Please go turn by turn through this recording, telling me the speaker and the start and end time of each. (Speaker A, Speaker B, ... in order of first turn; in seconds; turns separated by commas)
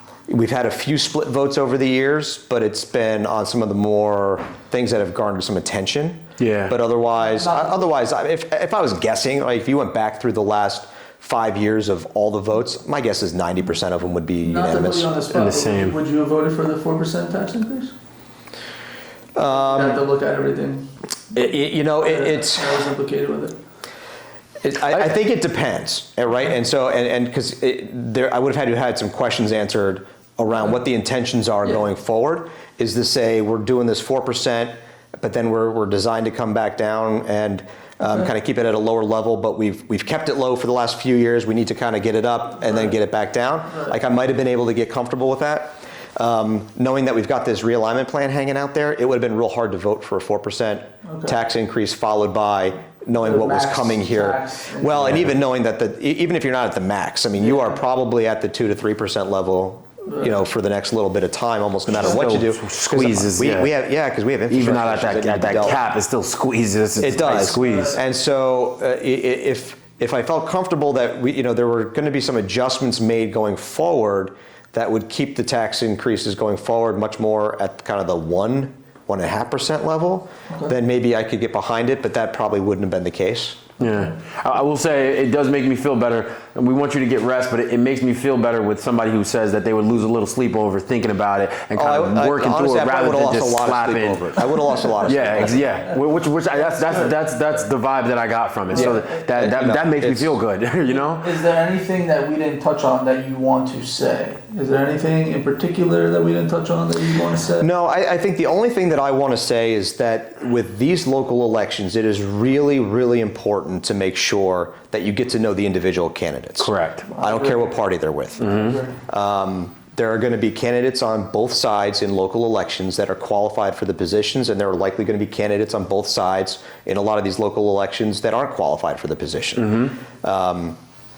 Speaker A: 0.3-15.1, Speaker B: 6.4-6.8, Speaker C: 7.2-7.9, Speaker C: 14.4-17.9, Speaker B: 15.3-15.9, Speaker A: 19.4-20.0, Speaker C: 19.4-20.8, Speaker A: 21.3-22.8, Speaker C: 22.0-23.5, Speaker A: 24.6-65.8, Speaker C: 42.6-42.9, Speaker C: 43.7-44.0, Speaker C: 51.0-51.4, Speaker C: 53.2-55.2, Speaker B: 55.0-55.3, Speaker C: 57.4-57.7, Speaker C: 60.1-60.4, Speaker B: 61.9-63.7, Speaker C: 61.9-62.2, Speaker B: 64.5-68.0, Speaker A: 67.0-83.7, Speaker C: 67.5-68.0, Speaker B: 83.8-94.3, Speaker C: 83.8-84.1, Speaker A: 91.7-95.6, Speaker C: 94.8-96.0, Speaker B: 95.0-101.4, Speaker C: 96.6-97.1, Speaker C: 98.7-99.2, Speaker A: 98.7-100.4, Speaker C: 100.9-107.7, Speaker A: 107.6-130.8, Speaker B: 116.6-117.1, Speaker C: 117.1-117.8, Speaker B: 118.4-118.7, Speaker C: 118.4-119.0, Speaker B: 129.6-129.9